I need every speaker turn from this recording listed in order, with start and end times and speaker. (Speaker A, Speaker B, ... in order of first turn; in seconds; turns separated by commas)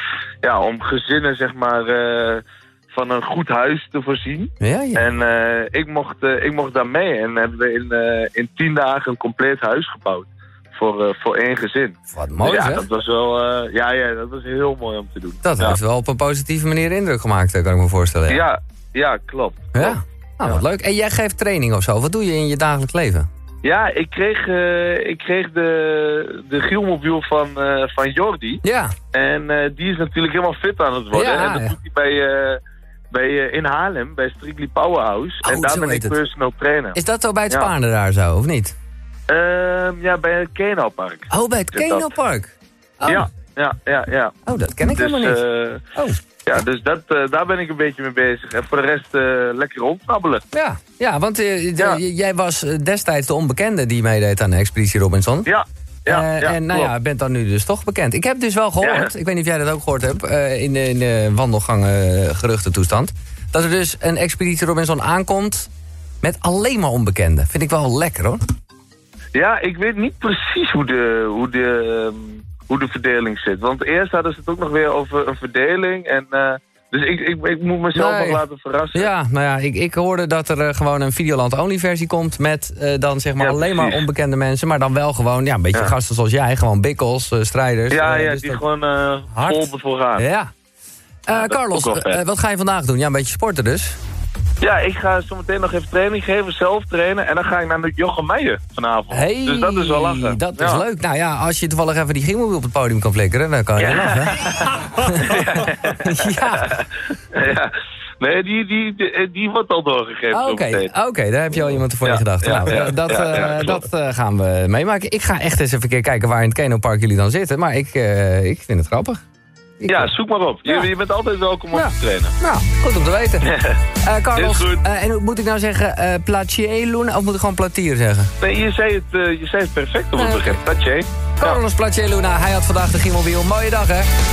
Speaker A: 0.4-15.8, Speaker B: 4.6-5.2, Speaker B: 12.1-12.9, Speaker B: 15.4-18.4, Speaker A: 18.3-20.6, Speaker B: 19.7-23.3, Speaker A: 23.6-37.0, Speaker B: 28.6-28.9, Speaker B: 31.1-31.8, Speaker B: 35.4-36.2, Speaker B: 36.9-38.7, Speaker A: 39.3-42.1, Speaker B: 41.3-43.3, Speaker A: 43.0-45.8, Speaker B: 44.5-45.4, Speaker B: 45.9-46.2, Speaker A: 46.4-50.4, Speaker B: 50.5-55.5, Speaker A: 55.5-56.9, Speaker B: 56.1-65.7, Speaker A: 58.8-59.1, Speaker B: 66.2-68.4, Speaker A: 69.3-79.1, Speaker B: 77.9-78.4, Speaker B: 78.9-88.6, Speaker A: 83.4-84.0, Speaker A: 87.9-90.2, Speaker B: 89.3-90.5, Speaker B: 91.3-94.0, Speaker A: 91.3-92.2, Speaker A: 94.6-100.8, Speaker B: 99.1-106.8, Speaker A: 103.8-106.8, Speaker A: 107.3-110.9, Speaker B: 110.3-119.2, Speaker A: 112.0-113.8, Speaker B: 119.8-120.1, Speaker A: 119.9-122.3, Speaker B: 121.7-123.5, Speaker A: 123.4-123.8, Speaker B: 124.0-128.3, Speaker A: 124.3-124.8, Speaker A: 128.4-131.6, Speaker B: 130.2-130.6, Speaker B: 131.4-134.1